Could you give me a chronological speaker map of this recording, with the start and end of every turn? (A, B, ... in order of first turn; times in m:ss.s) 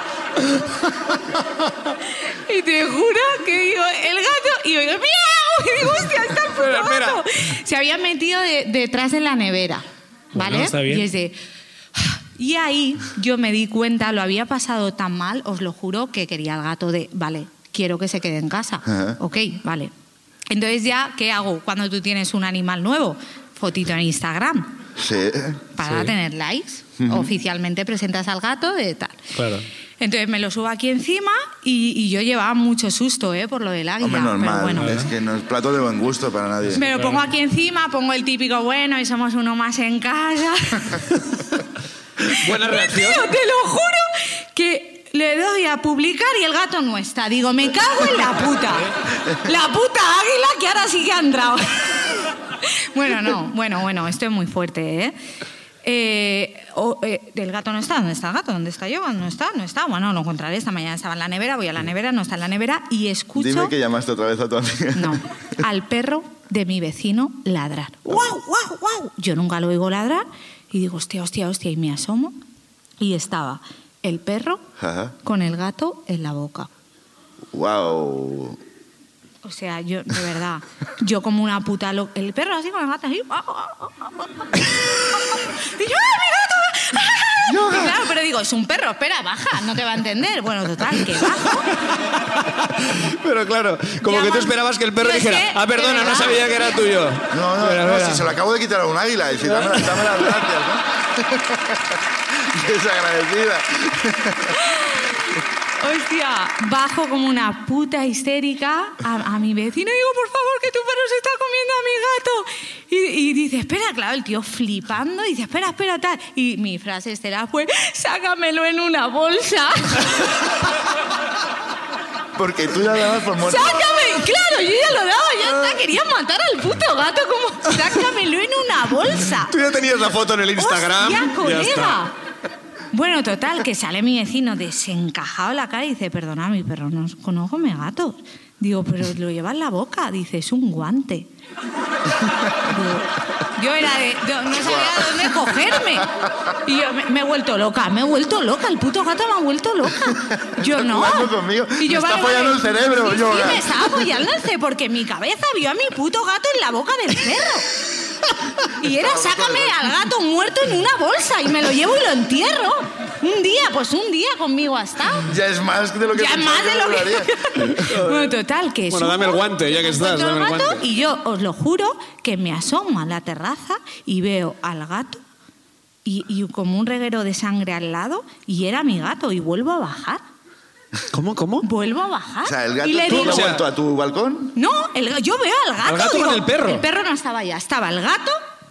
0:02.5-0:11.4 A
0:06.5-0:07.2 B
0:10.3-0:11.1 B
0:12.0-0:19.9 A
0:18.9-0:19.2 C
0:20.5-0:24.8 A
0:25.0-0:25.6 C
0:25.8-0:29.3 A
0:25.8-0:26.1 B
0:27.0-0:27.3 C
0:29.3-0:29.6 B
0:30.0-0:35.0 A
0:34.0-0:36.8 C
0:34.8-0:35.1 B
0:36.7-0:41.2 A
0:36.8-0:37.2 B
0:42.3-0:43.3 B
0:42.4-0:55.2 A
0:55.8-1:03.7 A
1:03.4-1:05.2 C
1:05.0-1:12.4 A
1:13.0-1:14.6 A
1:14.8-1:15.2 C
1:15.2-1:16.7 A
1:17.5-1:18.6 C
1:19.4-1:31.7 A
1:27.5-1:28.0 C
1:32.5-1:38.3 B
1:34.0-1:36.7 A
1:37.3-1:44.6 C
1:39.6-1:40.3 B
1:44.6-2:00.3 A
2:02.4-2:04.0 C
2:03.4-2:09.5 A
2:09.3-2:12.0 B
2:10.6-2:12.1 A
2:12.9-2:21.3 A
2:22.6-2:26.1 A
2:24.5-2:26.3 C
2:26.6-2:37.7 A
2:30.1-2:34.1 C
2:38.8-2:45.3 A
2:38.8-2:39.9 C
2:45.3-2:47.9 C
2:46.1-2:55.2 A
2:47.7-2:48.3 B
2:48.9-2:50.8 B
2:56.0-3:00.2 A
3:01.1-3:01.7 B
3:01.6-3:03.6 A
3:02.4-3:04.6 C
3:03.1-3:03.6 B
3:04.6-3:08.4 A
3:05.8-3:06.9 B